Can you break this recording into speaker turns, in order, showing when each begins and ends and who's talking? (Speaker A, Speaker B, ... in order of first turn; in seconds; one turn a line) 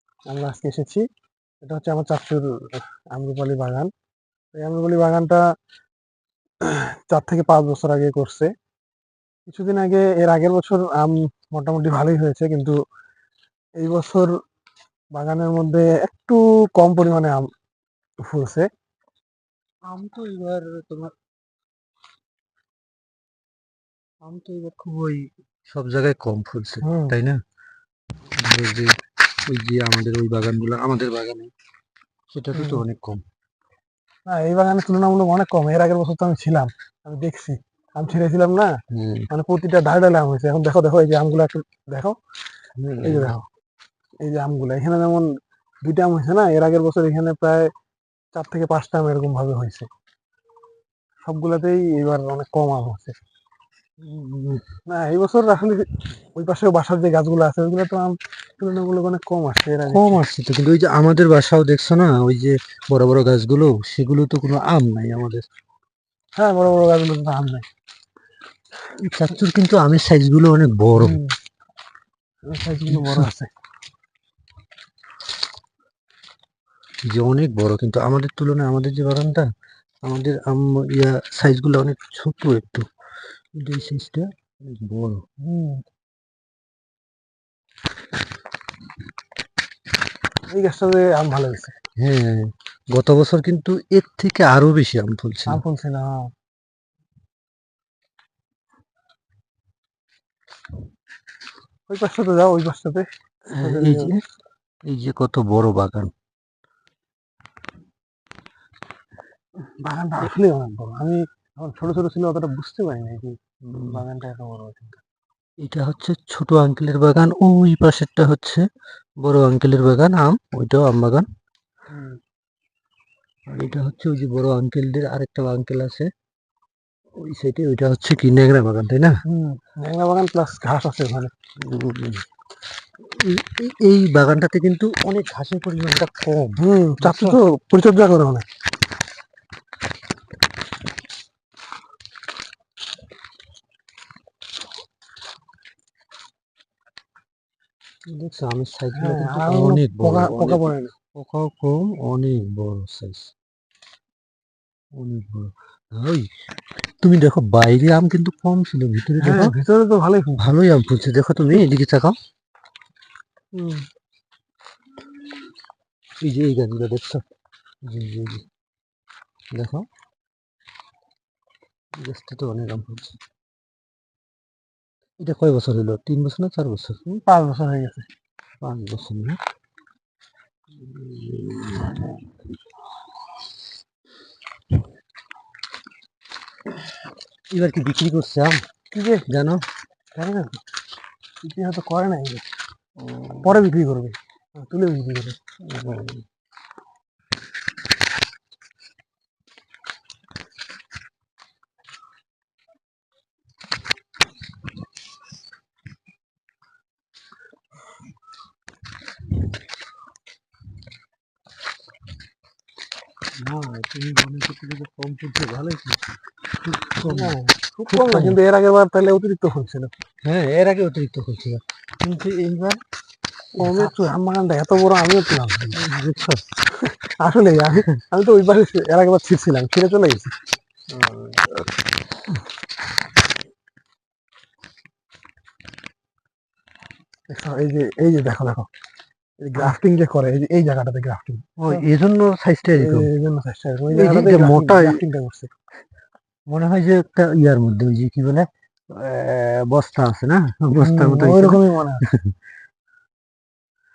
Speaker A: 0.3-1.0
Speaker A: 1.6-3.9
Speaker A: 4.5-5.4
Speaker A: 6.7-8.5
Speaker A: 9.5-12.8
Speaker A: 13.8-14.3
Speaker A: 15.1-17.5
Speaker A: 18.3-18.7
Speaker B: 19.9-21.1
Speaker B: 24.2-27.4
Speaker A: 26.8-27.2
Speaker B: 28.4-28.9
Speaker B: 29.5-31.5
Speaker B: 32.3-33.2
Speaker A: 32.5-32.8
Speaker A: 34.3-38.7
Speaker B: 38.9-39.3
Speaker A: 39.3-42.1
Speaker B: 42.8-43.4
Speaker A: 43.0-43.4
Speaker A: 44.2-45.3
Speaker A: 45.8-47.7
Speaker A: 48.3-49.9
Speaker A: 51.3-53.1
Speaker B: 54.0-54.6
Speaker A: 54.9-60.2
Speaker B: 59.9-65.4
Speaker A: 66.4-67.7
Speaker B: 69.0-71.2
Speaker A: 71.0-71.3
Speaker A: 72.5-73.5
Speaker B: 72.9-73.3
Speaker B: 77.1-79.5
Speaker B: 80.0-82.9
Speaker B: 83.6-85.2
Speaker A: 85.4-85.8
Speaker A: 90.5-91.8
Speaker B: 92.0-95.6
Speaker A: 95.5-96.2
Speaker A: 101.9-104.2
Speaker B: 103.5-104.2
Speaker B: 104.8-106.1
Speaker A: 109.6-115.0
Speaker B: 113.7-114.0
Speaker B: 115.6-118.7
Speaker B: 119.2-121.3
Speaker A: 121.9-122.2
Speaker B: 123.5-126.1
Speaker B: 127.2-129.2
Speaker A: 129.2-131.3
Speaker B: 131.6-132.2
Speaker B: 133.0-137.4
Speaker A: 136.6-138.4
Speaker B: 148.1-150.6
Speaker A: 148.9-150.9
Speaker B: 151.2-153.3
Speaker B: 154.9-156.3
Speaker B: 157.0-159.6
Speaker A: 159.2-160.5
Speaker B: 160.4-162.2
Speaker A: 163.5-163.8
Speaker B: 166.2-167.2
Speaker B: 167.8-168.4
Speaker B: 169.5-169.9
Speaker B: 172.0-173.2
Speaker B: 175.2-177.2
Speaker A: 177.2-178.1
Speaker B: 178.6-179.4
Speaker B: 180.8-182.2
Speaker B: 187.5-188.6
Speaker A: 188.9-189.2
Speaker B: 189.3-189.7
Speaker A: 190.2-190.6
Speaker A: 191.4-192.4
Speaker B: 193.0-193.6
Speaker A: 193.4-195.4
Speaker B: 195.6-196.2
Speaker B: 213.4-218.4
Speaker A: 217.1-219.9
Speaker B: 220.2-222.8
Speaker B: 223.6-223.9
Speaker A: 223.6-225.8
Speaker B: 225.8-226.4
Speaker A: 226.7-230.3
Speaker B: 230.9-231.5
Speaker A: 237.3-238.7
Speaker A: 239.4-241.9
Speaker B: 241.6-243.1
Speaker A: 242.8-245.5
Speaker B: 243.9-245.0
Speaker B: 246.5-252.3
Speaker A: 250.8-252.1